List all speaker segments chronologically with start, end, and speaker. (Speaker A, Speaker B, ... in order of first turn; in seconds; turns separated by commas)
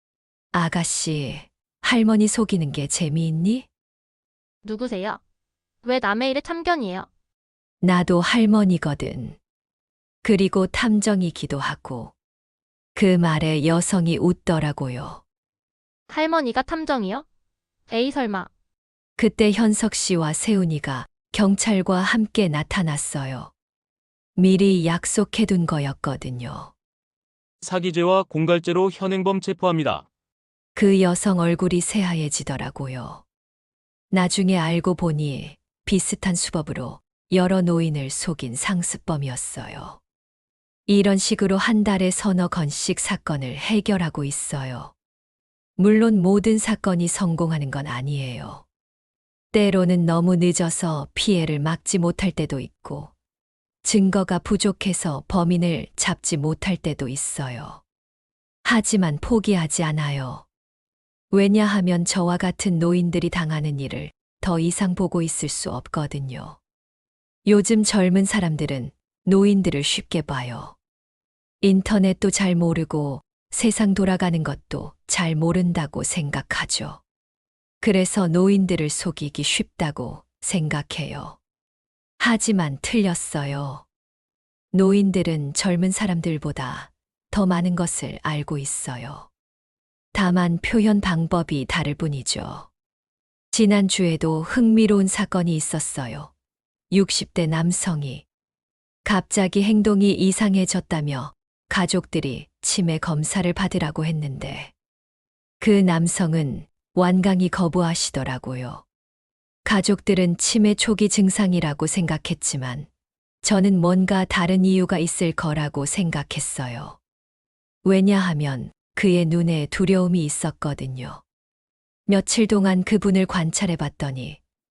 Speaker A: 0.5-3.7, Speaker B: 4.6-5.2, Speaker B: 5.8-7.1, Speaker A: 7.8-9.4, Speaker A: 10.2-12.1, Speaker A: 12.9-15.2, Speaker B: 16.1-17.2, Speaker B: 17.9-18.5, Speaker A: 19.2-23.5, Speaker A: 24.4-26.7, Speaker C: 27.6-30.1, Speaker A: 30.7-33.2, Speaker A: 34.1-40.0, Speaker A: 40.9-44.9, Speaker A: 45.8-48.6, Speaker A: 49.5-53.1, Speaker A: 53.8-57.8, Speaker A: 58.6-60.5, Speaker A: 61.3-66.6, Speaker A: 67.4-70.8, Speaker A: 71.6-77.0, Speaker A: 77.8-81.4, Speaker A: 82.2-83.8, Speaker A: 84.7-89.3, Speaker A: 90.1-92.7, Speaker A: 93.5-96.3, Speaker A: 96.9-98.2, Speaker A: 99.0-104.7, Speaker A: 105.6-108.8, Speaker A: 109.6-112.9, Speaker A: 113.4-117.0, Speaker A: 117.8-121.2, Speaker A: 122.1-124.4